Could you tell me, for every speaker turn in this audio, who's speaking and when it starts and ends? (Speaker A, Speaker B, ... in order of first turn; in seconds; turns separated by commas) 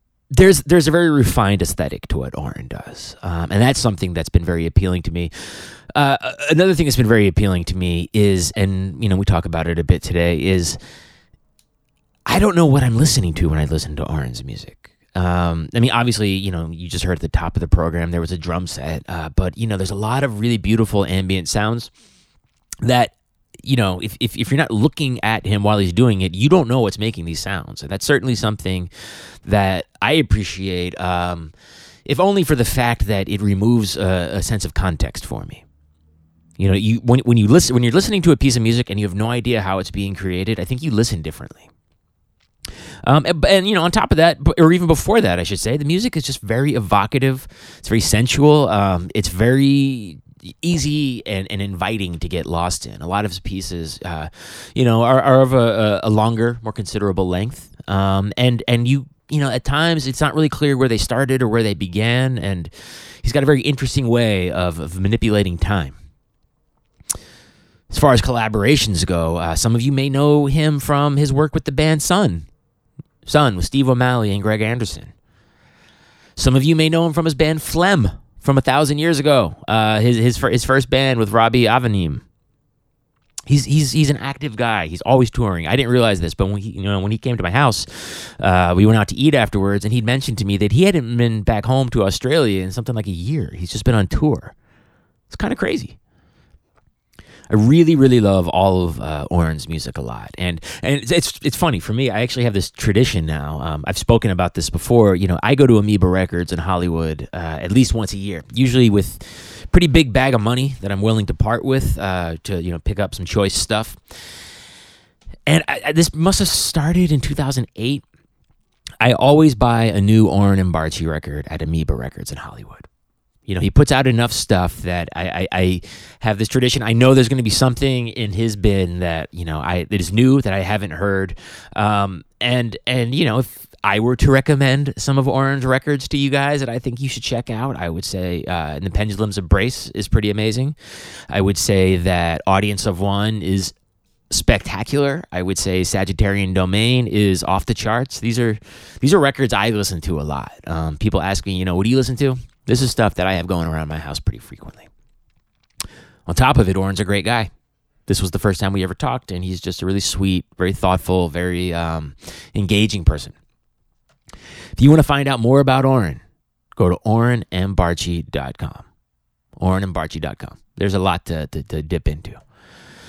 Speaker A: 0.3-10.8, Speaker A: 12.3-21.9, Speaker A: 22.8-28.9, Speaker A: 29.4-31.5, Speaker A: 32.1-35.6, Speaker A: 36.6-41.7, Speaker A: 43.0-62.7, Speaker A: 63.2-66.0, Speaker A: 67.9-72.5, Speaker A: 73.3-75.1, Speaker A: 76.4-82.2, Speaker A: 83.5-94.5, Speaker A: 95.3-96.0, Speaker A: 97.5-114.0, Speaker A: 115.5-118.0, Speaker A: 119.0-122.9, Speaker A: 123.5-140.8, Speaker A: 141.3-143.7, Speaker A: 144.3-154.9, Speaker A: 156.3-157.5, Speaker A: 158.1-163.3, Speaker A: 164.8-166.2, Speaker A: 166.8-168.8, Speaker A: 169.6-172.4